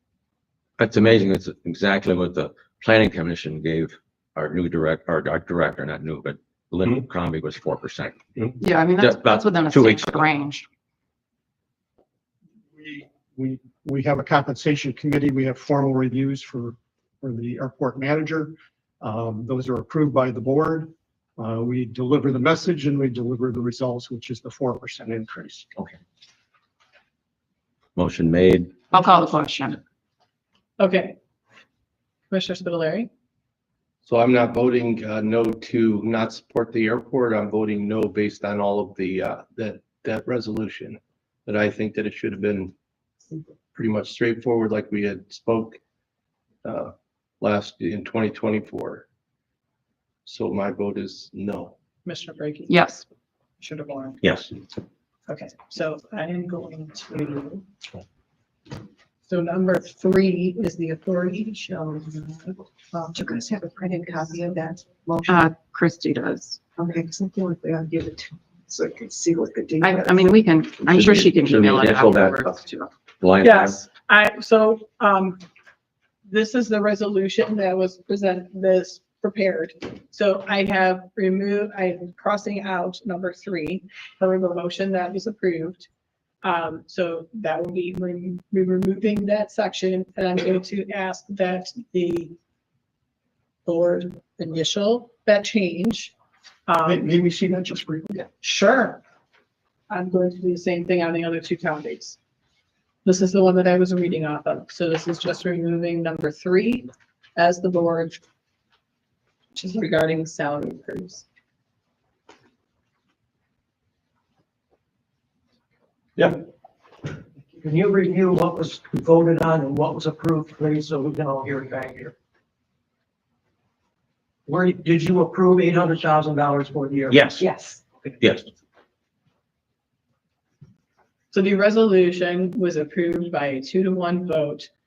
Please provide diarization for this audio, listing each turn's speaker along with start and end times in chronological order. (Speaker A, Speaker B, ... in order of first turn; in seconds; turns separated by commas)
Speaker A: 0.8-8.3, Speaker B: 8.6-10.7, Speaker A: 9.0-10.4, Speaker C: 12.7-25.7, Speaker A: 28.0-28.9, Speaker B: 28.9-29.8, Speaker D: 30.8-31.2, Speaker D: 32.3-33.1, Speaker E: 34.0-42.7, Speaker E: 43.7-45.8, Speaker E: 46.6-49.0, Speaker E: 50.2-51.8, Speaker D: 52.0-52.9, Speaker B: 52.7-53.0, Speaker D: 53.6-54.2, Speaker A: 54.2-54.5, Speaker D: 55.3-57.6, Speaker D: 59.2-62.6, Speaker F: 62.9-65.5, Speaker B: 65.3-66.6, Speaker F: 66.8-70.2, Speaker B: 69.8-72.9, Speaker A: 70.9-72.5, Speaker A: 73.2-73.8, Speaker D: 73.4-75.4, Speaker D: 76.3-85.9, Speaker D: 86.4-92.4, Speaker D: 93.7-96.1, Speaker D: 96.7-97.1, Speaker C: 96.9-98.3, Speaker D: 98.4-99.0, Speaker D: 99.9-102.2, Speaker D: 103.0-108.2, Speaker D: 109.5-111.2, Speaker G: 117.7-122.1, Speaker G: 124.5-127.0, Speaker A: 127.1-127.5, Speaker F: 127.4-127.8, Speaker A: 128.2-128.5, Speaker D: 131.3-134.7